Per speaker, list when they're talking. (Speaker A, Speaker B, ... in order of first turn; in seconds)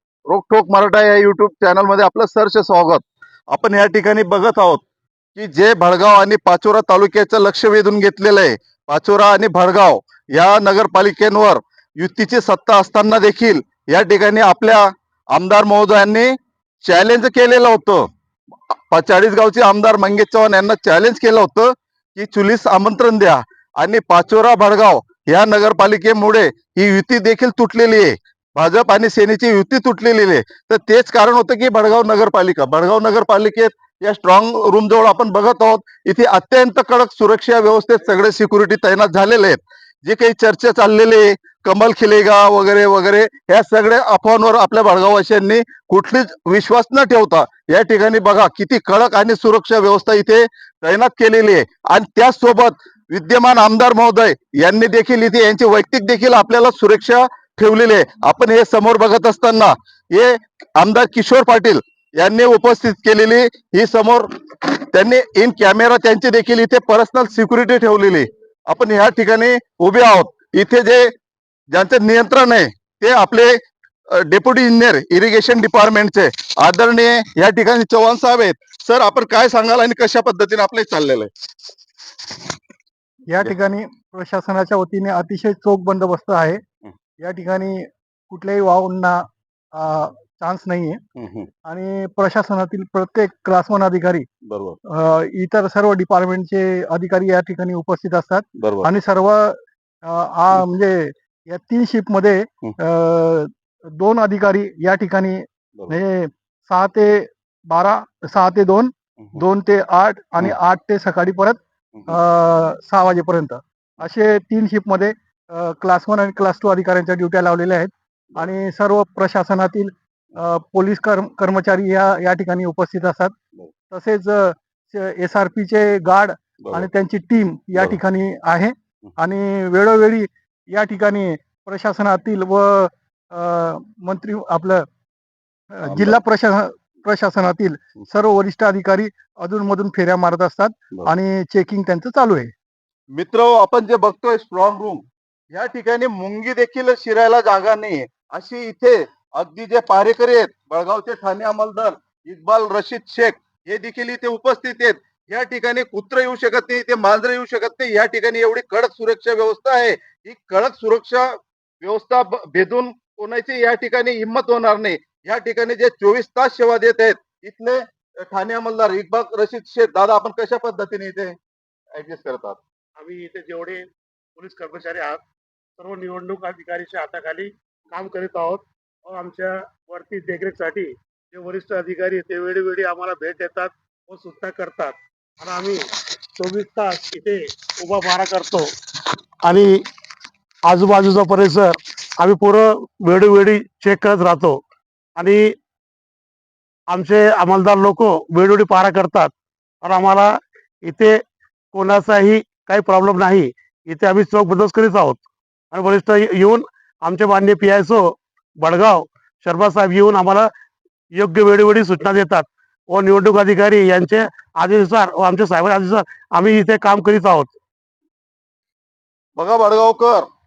Speaker A: 0.3-4.8, 5.3-16.3, 16.8-18.0, 18.9-71.0, 71.7-73.6, 74.1-81.3, 91.2-91.5, 94.5-94.8, 98.6-98.9, 135.8-136.2, 143.1-171.3, 171.9-172.6, 219.3-220.3
Speaker B: 83.3-86.6, 87.2-89.2, 89.7-91.0, 91.6-94.2, 94.9-123.3, 123.9-134.9, 135.7-142.5
Speaker C: 173.0-173.8, 174.4-175.2, 175.8-188.7, 189.4-189.8, 190.7-194.6, 195.2-195.5, 196.9-201.2, 201.7-210.5, 211.1-217.6